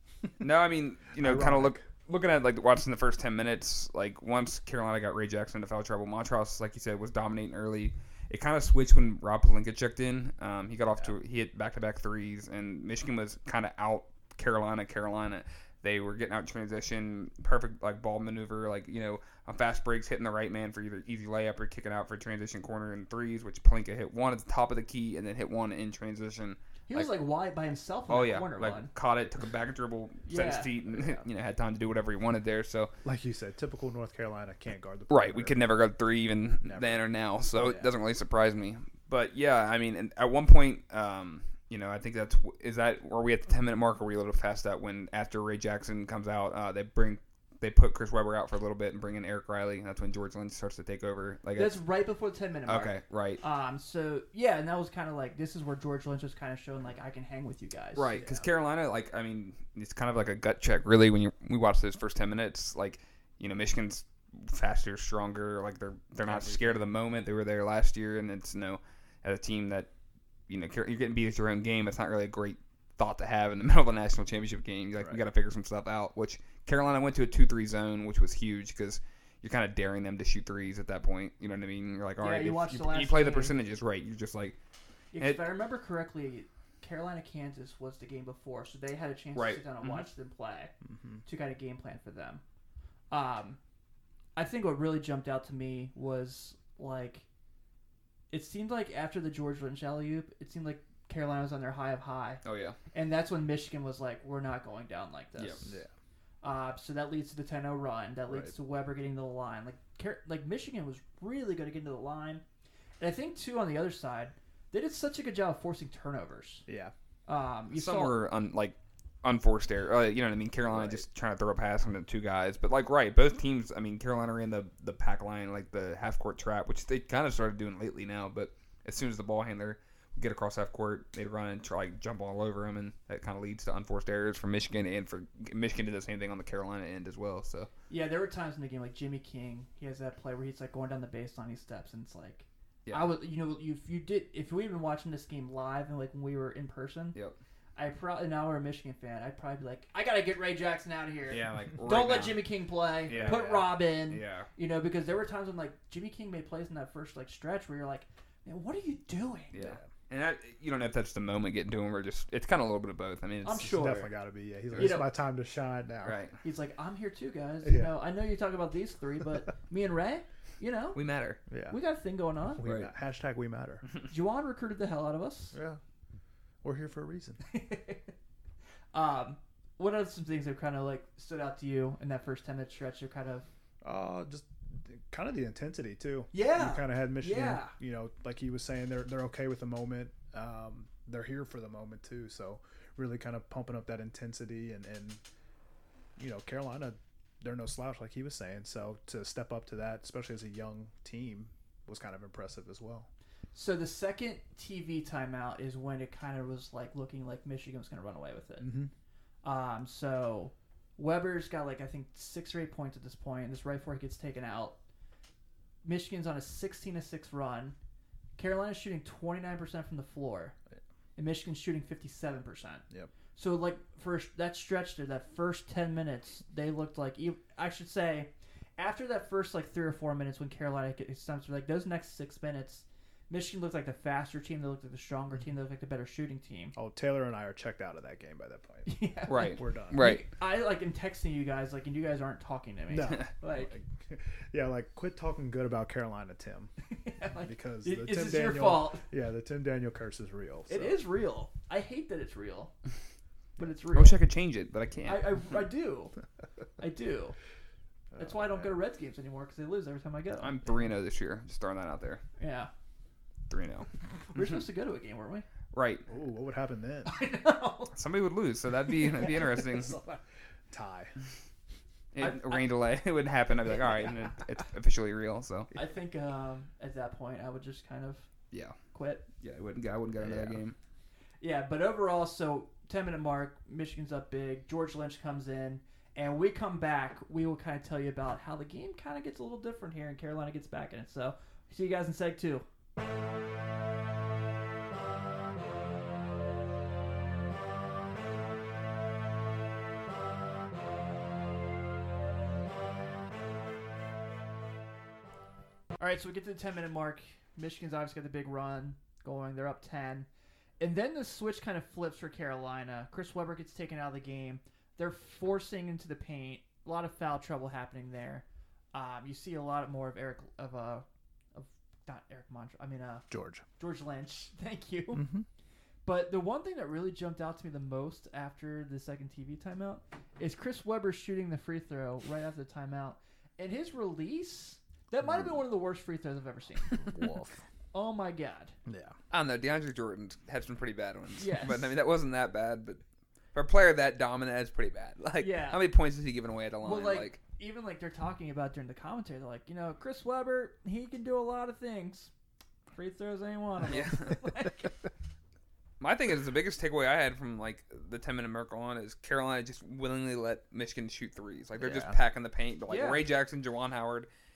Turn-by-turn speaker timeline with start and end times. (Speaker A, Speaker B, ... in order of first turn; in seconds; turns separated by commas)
Speaker A: 0.4-27.1, Speaker B: 1.2-1.8, Speaker C: 26.9-28.9, Speaker A: 28.1-32.9, Speaker C: 30.3-31.2, Speaker B: 33.0-35.6, Speaker A: 35.1-51.8, Speaker B: 36.6-37.0, Speaker C: 51.5-58.5, Speaker A: 52.7-53.4, Speaker A: 58.0-69.9, Speaker B: 66.3-66.8, Speaker A: 70.5-84.6, Speaker C: 82.2-83.5, Speaker C: 85.1-90.7, Speaker A: 85.2-85.5, Speaker A: 89.3-90.0, Speaker B: 90.8-91.2, Speaker C: 91.2-92.4, Speaker C: 93.1-93.6, Speaker C: 94.3-97.2, Speaker C: 98.3-102.4, Speaker A: 102.4-102.8, Speaker C: 102.9-105.8, Speaker A: 105.4-105.7, Speaker C: 106.4-112.4, Speaker B: 108.3-108.5, Speaker C: 113.0-116.6, Speaker B: 116.7-116.9, Speaker C: 117.3-118.2, Speaker A: 117.7-137.7, Speaker B: 120.7-121.0, Speaker C: 137.9-147.2, Speaker A: 142.8-143.1, Speaker C: 147.8-159.8, Speaker A: 151.3-152.5, Speaker A: 153.1-154.5, Speaker A: 159.5-163.7, Speaker C: 163.4-164.1, Speaker B: 163.7-166.2, Speaker A: 164.7-165.0, Speaker C: 164.8-165.1, Speaker A: 166.0-166.4, Speaker C: 166.4-171.0, Speaker B: 167.6-167.9, Speaker A: 170.9-171.4, Speaker B: 171.5-171.8, Speaker C: 171.7-172.6, Speaker B: 172.6-173.8, Speaker A: 172.6-172.9, Speaker C: 174.1-175.5, Speaker B: 175.5-175.8, Speaker B: 176.6-177.4, Speaker C: 177.4-178.1, Speaker C: 178.9-183.5, Speaker B: 183.8-195.2, Speaker C: 186.3-187.7, Speaker B: 196.2-203.1, Speaker C: 203.5-208.7, Speaker B: 208.6-208.9, Speaker C: 209.4-214.8, Speaker C: 215.8-217.8, Speaker C: 218.4-220.5, Speaker C: 221.2-236.7, Speaker B: 236.7-238.9, Speaker C: 238.8-243.7, Speaker A: 239.3-240.2, Speaker B: 239.6-240.0, Speaker B: 242.9-246.7, Speaker C: 246.9-249.0, Speaker B: 247.4-251.0, Speaker C: 250.7-252.7, Speaker C: 253.6-254.2, Speaker A: 253.9-255.6, Speaker C: 255.1-256.1, Speaker C: 256.8-257.4, Speaker B: 258.1-258.7, Speaker C: 258.2-260.5, Speaker A: 260.4-262.2, Speaker C: 262.4-262.7, Speaker A: 263.5-263.9, Speaker C: 264.3-265.4, Speaker A: 265.7-266.0, Speaker B: 266.1-267.1, Speaker C: 267.0-267.9, Speaker A: 267.9-270.0, Speaker C: 269.1-270.0, Speaker B: 270.7-271.1, Speaker A: 272.1-275.7, Speaker C: 272.2-272.6, Speaker C: 273.8-274.2, Speaker C: 275.7-278.3, Speaker A: 278.5-278.8, Speaker C: 278.9-279.2, Speaker A: 279.4-280.7, Speaker B: 280.2-280.6, Speaker C: 281.4-292.6, Speaker C: 306.0-310.3, Speaker C: 310.8-323.3, Speaker B: 323.3-323.6, Speaker C: 323.8-325.2, Speaker B: 325.1-325.4, Speaker C: 326.0-337.2, Speaker B: 335.2-335.6, Speaker B: 337.0-337.6, Speaker C: 337.9-338.8, Speaker B: 338.9-339.1, Speaker A: 339.3-343.0, Speaker C: 341.4-341.9, Speaker A: 343.5-347.4, Speaker C: 345.4-345.8, Speaker C: 346.8-352.3, Speaker C: 352.9-355.0, Speaker A: 353.9-354.4, Speaker A: 356.0-364.3, Speaker B: 361.8-362.2, Speaker C: 362.9-363.2